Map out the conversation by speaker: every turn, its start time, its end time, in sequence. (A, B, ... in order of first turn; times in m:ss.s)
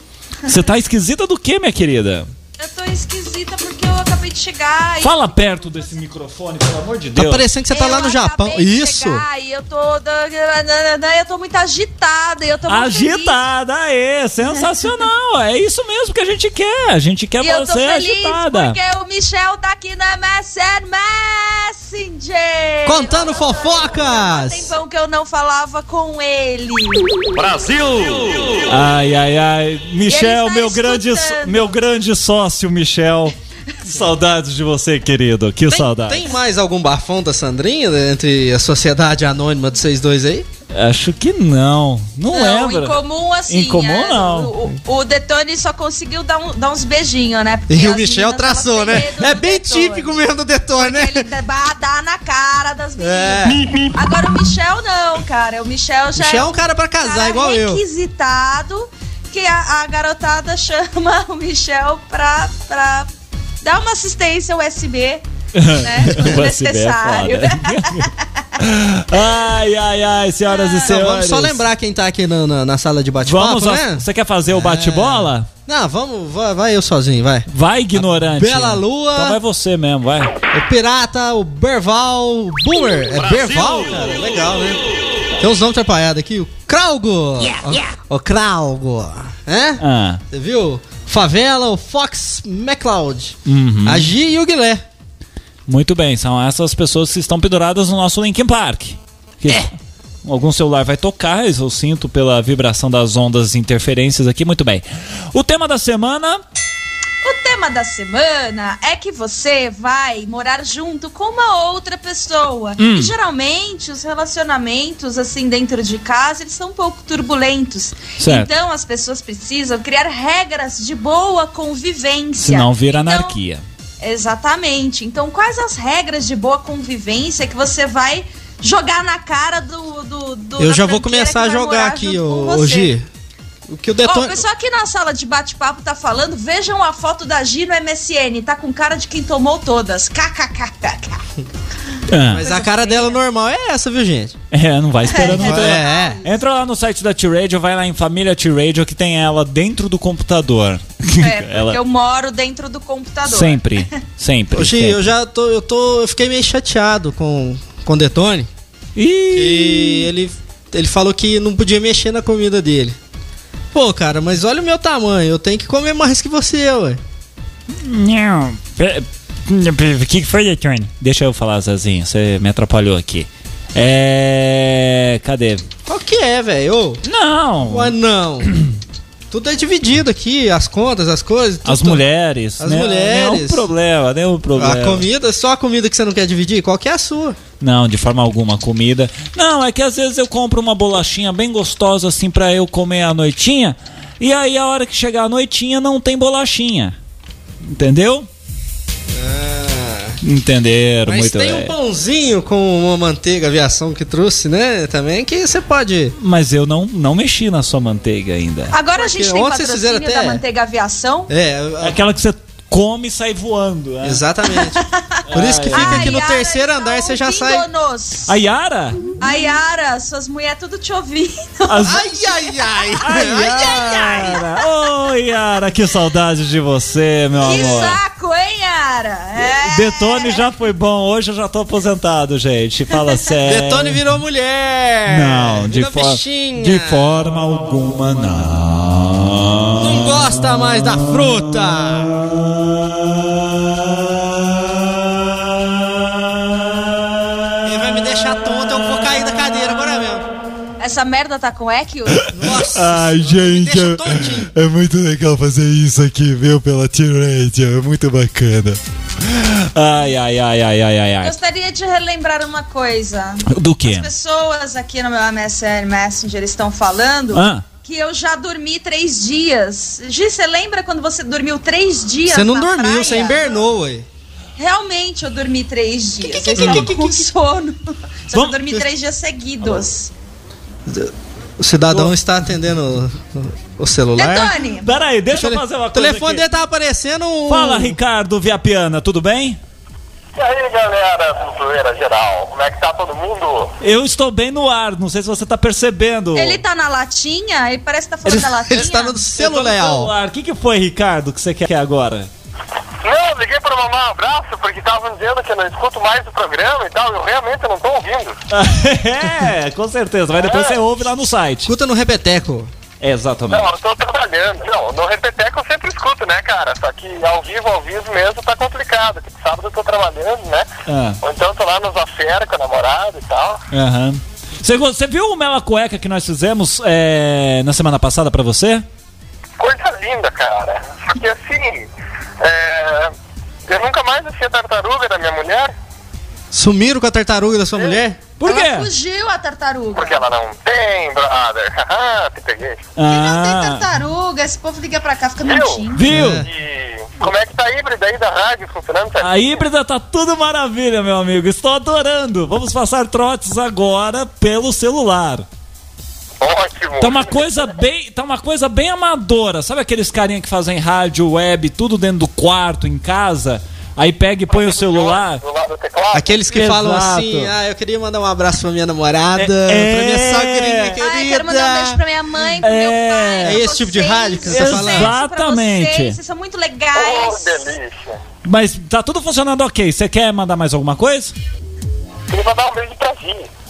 0:00.4-0:02.3 A
0:02.6-0:05.2 B
0:05.0-0:07.4 A
0:07.2-0:09.2 C
0:07.7-0:13.4 B
0:12.7-0:18.8 A
0:17.4-0:27.3 B
0:22.8-0:24.7 C
0:27.3-0:36.3 A
0:30.1-0:31.7 B
0:36.1-0:40.5 C
0:40.7-0:44.5 A
0:42.3-0:50.1 B
0:47.7-0:51.2 C
0:50.8-0:56.5 B
0:53.0-0:53.8 C
0:56.2-0:57.8 C
0:57.0-1:03.1 B
1:03.6-1:05.2 B
1:05.5-1:11.6 A
1:05.8-1:08.2 B
1:10.5-1:11.0 B
1:10.9-1:19.4 C
1:13.2-1:15.5 A
1:17.5-1:20.3 A
1:20.5-1:24.8 C
1:23.1-1:24.1 A
1:25.4-1:34.8 C
1:27.6-1:27.9 A
1:29.8-1:30.2 A
1:33.4-1:34.1 A
1:35.7-1:46.4 A
1:47.2-2:03.4 B
1:52.8-1:53.1 A
1:58.2-1:58.5 A
2:02.4-2:03.6 A
2:04.0-2:12.9 B
2:10.6-2:13.1 C
2:13.7-2:14.4 C
2:14.0-2:21.2 B
2:22.1-2:22.4 A
2:22.2-2:24.3 C
2:22.4-2:23.2 B
2:24.5-2:31.8 A
2:25.1-2:26.2 B
2:25.2-2:26.2 C
2:31.2-2:34.0 B
2:33.2-2:35.1 A
2:34.5-2:38.5 C
2:39.0-2:40.1 A
2:39.3-2:43.0 C
2:43.7-2:47.0 C
2:47.8-2:50.9 D
2:51.0-2:55.7 A
2:55.8-2:57.0 C
2:57.0-2:57.9 A
2:57.7-2:58.5 C
2:59.3-3:02.0 C
3:01.6-3:05.0 A
3:02.6-3:03.7 C
3:04.6-3:07.4 C
3:07.6-3:17.0 A
3:17.6-3:18.3 A
3:19.1-3:20.2 C
3:20.2-3:21.7 A
3:21.0-3:26.1 C
3:26.2-3:28.7 A
3:28.7-3:31.3 B
3:28.9-3:30.4 C
3:31.3-3:32.0 C
3:31.8-3:34.2 A
3:34.0-3:37.6 C
3:34.5-3:38.3 B
3:35.3-3:36.2 A
3:38.3-3:39.1 A
3:39.2-3:42.7 B
3:41.6-3:42.0 A
3:41.8-3:44.3 C
3:43.0-3:48.0 A
3:43.7-3:44.5 B
3:47.4-3:50.4 B
3:47.5-3:47.9 C
3:49.6-3:54.0 A
3:53.4-3:57.1 C
3:55.1-4:00.2 A
3:59.8-4:02.1 C
4:02.5-4:07.6 A
4:07.6-4:10.2 C
4:10.8-4:12.3 B
4:12.2-4:21.3 A
4:12.3-4:14.5 C
4:21.2-4:33.5 B
4:23.4-4:24.1 A
4:27.3-4:27.6 A
4:32.3-4:34.0 C
4:34.6-4:40.1 B
4:36.2-4:37.3 C
4:36.6-4:36.8 A
4:38.3-4:38.8 A
4:40.9-4:44.6 C
4:44.2-4:44.9 B
4:44.8-4:46.4 A
4:45.3-4:48.0 C
4:47.5-4:49.6 A
4:50.4-4:53.7 E
4:53.8-4:56.6 A
4:56.3-4:59.2 B
4:58.3-5:00.1 C
4:59.4-5:02.3 A
5:03.0-5:08.4 E
5:08.5-5:11.7 A
5:10.4-5:10.8 E
5:11.6-5:12.7 C
5:13.0-5:13.7 A
5:13.5-5:20.7 E
5:20.8-5:21.2 A
5:21.2-5:23.6 E
5:23.7-5:28.8 A
5:29.6-5:31.9 E
5:32.4-5:33.1 E
5:33.7-5:35.7 E
5:36.5-5:38.2 C
5:38.4-5:38.9 A
5:38.4-5:40.2 B
5:40.0-5:42.8 E
5:43.0-5:43.8 A
5:43.0-5:46.0 B
5:45.4-5:49.6 E
5:45.9-5:46.4 A
5:46.1-5:46.5 C
5:49.2-5:55.4 A
5:56.4-5:57.5 E
5:57.0-6:05.4 A
6:04.5-6:06.4 E
6:06.1-6:12.0 C
6:06.5-6:07.5 A
6:09.4-6:11.0 A
6:11.0-6:17.6 B
6:12.6-6:13.6 A
6:13.4-6:15.1 C
6:14.4-6:16.2 A
6:16.9-6:18.2 E
6:18.4-6:21.3 A
6:22.3-6:23.5 E